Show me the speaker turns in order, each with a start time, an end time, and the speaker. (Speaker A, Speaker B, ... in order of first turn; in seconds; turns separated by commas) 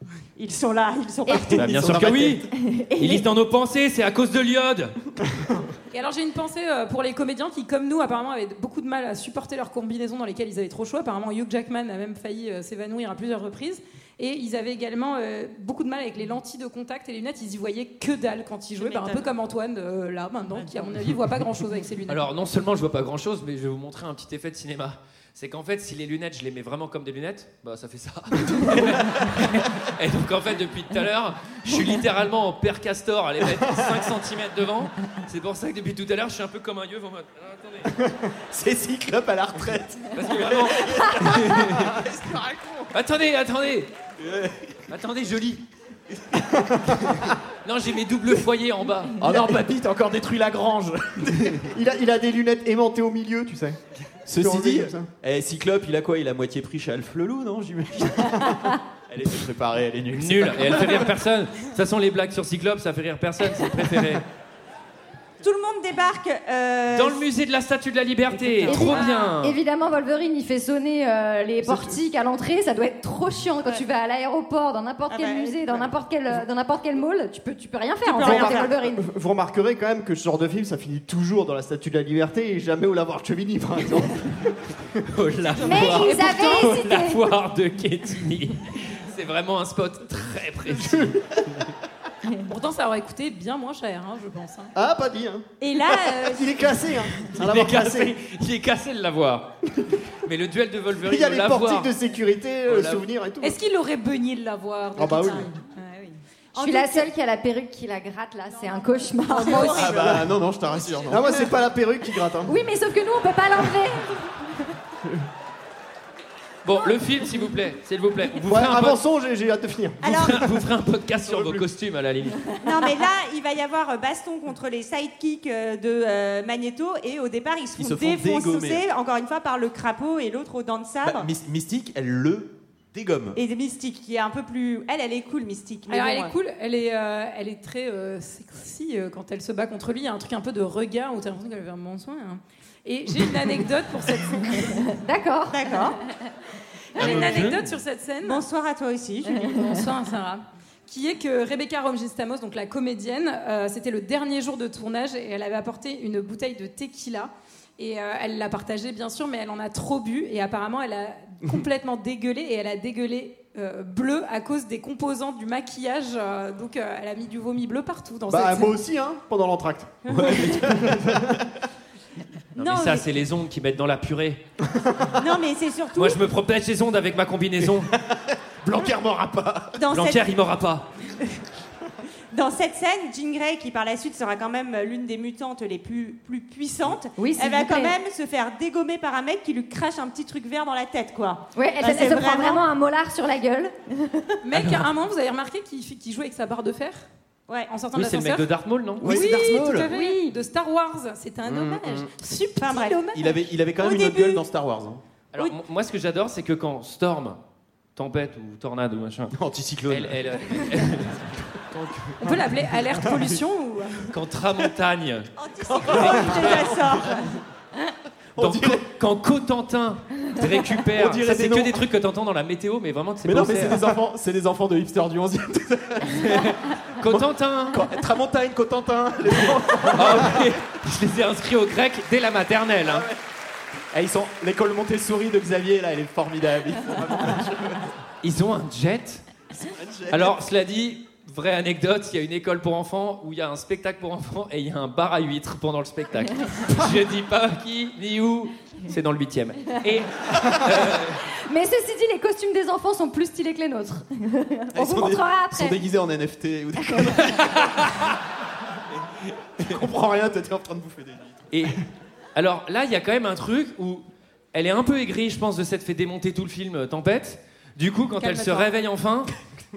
Speaker A: 0.4-1.8, Speaker B: 1.5-5.0, Speaker C: 1.6-2.4, Speaker D: 2.5-3.2, Speaker E: 5.9-22.3, Speaker A: 18.8-19.3, Speaker B: 22.1-37.9, Speaker C: 28.7-29.4, Speaker F: 38.0-38.3, Speaker C: 38.5-42.9, Speaker B: 40.1-41.9, Speaker B: 42.9-43.9, Speaker C: 44.2-44.8, Speaker B: 44.9-45.6, Speaker C: 46.1-47.3, Speaker B: 47.6-49.1, Speaker C: 49.2-51.7, Speaker F: 51.5-55.1, Speaker C: 54.3-58.6, Speaker C: 59.1-61.1, Speaker B: 60.1-64.2, Speaker A: 65.4-67.2, Speaker B: 66.9-69.6, Speaker E: 68.7-69.3, Speaker D: 68.7-79.0, Speaker F: 71.6-72.0, Speaker A: 75.1-75.9, Speaker A: 78.0-78.8, Speaker F: 78.2-84.8, Speaker B: 85.1-91.2, Speaker D: 85.6-87.2, Speaker E: 86.0-86.8, Speaker F: 90.7-91.5, Speaker E: 92.4-94.7, Speaker F: 94.8-95.5, Speaker A: 95.6-96.5, Speaker E: 95.6-96.5, Speaker F: 96.1-98.1, Speaker B: 97.3-99.5, Speaker B: 100.2-101.9, Speaker F: 101.0-103.6, Speaker C: 102.7-103.0, Speaker E: 103.4-106.2, Speaker F: 105.0-105.5, Speaker A: 106.6-107.1, Speaker D: 106.6-109.9, Speaker E: 108.6-109.8, Speaker A: 109.3-110.1, Speaker C: 109.7-111.2, Speaker F: 109.8-110.3, Speaker F: 111.1-112.6, Speaker A: 111.2-111.5, Speaker D: 112.4-114.7, Speaker B: 116.6-119.0, Speaker F: 118.4-120.0, Speaker A: 120.0-120.5, Speaker B: 120.0-122.6, Speaker C: 121.3-121.7, Speaker A: 122.6-131.3, Speaker C: 127.8-128.8, Speaker C: 131.0-133.4, Speaker A: 133.4-136.3, Speaker E: 135.9-144.9, Speaker D: 144.9-146.1, Speaker A: 145.5-146.0, Speaker E: 146.9-148.4, Speaker A: 148.2-149.4, Speaker E: 149.3-168.8, Speaker F: 168.3-170.1, Speaker A: 170.1-170.5, Speaker C: 170.1-171.3, Speaker F: 170.6-171.4, Speaker B: 172.6-174.4, Speaker A: 172.6-173.1, Speaker F: 174.7-175.1, Speaker A: 175.2-176.2, Speaker B: 176.0-177.9, Speaker C: 177.8-179.8, Speaker A: 179.8-180.3, Speaker B: 179.8-180.9, Speaker A: 182.3-192.7, Speaker D: 187.2-187.9, Speaker D: 191.6-194.3, Speaker E: 194.4-197.1, Speaker B: 194.5-194.9, Speaker E: 197.7-198.5, Speaker B: 197.9-199.8, Speaker C: 199.0-199.9, Speaker E: 199.0-203.4, Speaker D: 199.9-200.3, Speaker C: 201.4-202.1, Speaker A: 202.6-203.1, Speaker C: 203.1-205.0, Speaker A: 203.8-204.4, Speaker B: 205.3-207.4, Speaker B: 207.9-209.4, Speaker C: 209.3-211.2, Speaker B: 209.9-212.1, Speaker C: 211.7-212.1, Speaker E: 212.2-214.1, Speaker B: 214.1-215.3, Speaker A: 215.4-217.2, Speaker C: 215.7-217.2, Speaker B: 215.9-216.8, Speaker C: 218.4-218.9, Speaker B: 218.4-223.8, Speaker C: 221.0-221.8, Speaker C: 223.2-230.6, Speaker B: 227.0-227.8, Speaker B: 229.9-233.1, Speaker C: 232.8-233.2, Speaker C: 233.9-237.9, Speaker B: 238.2-239.3, Speaker C: 239.5-240.4, Speaker B: 240.1-251.2, Speaker D: 251.5-255.8, Speaker C: 254.7-257.8, Speaker D: 256.8-257.2, Speaker B: 257.2-258.2, Speaker C: 259.6-261.5, Speaker B: 261.5-261.8, Speaker B: 262.4-269.4, Speaker A: 268.2-268.7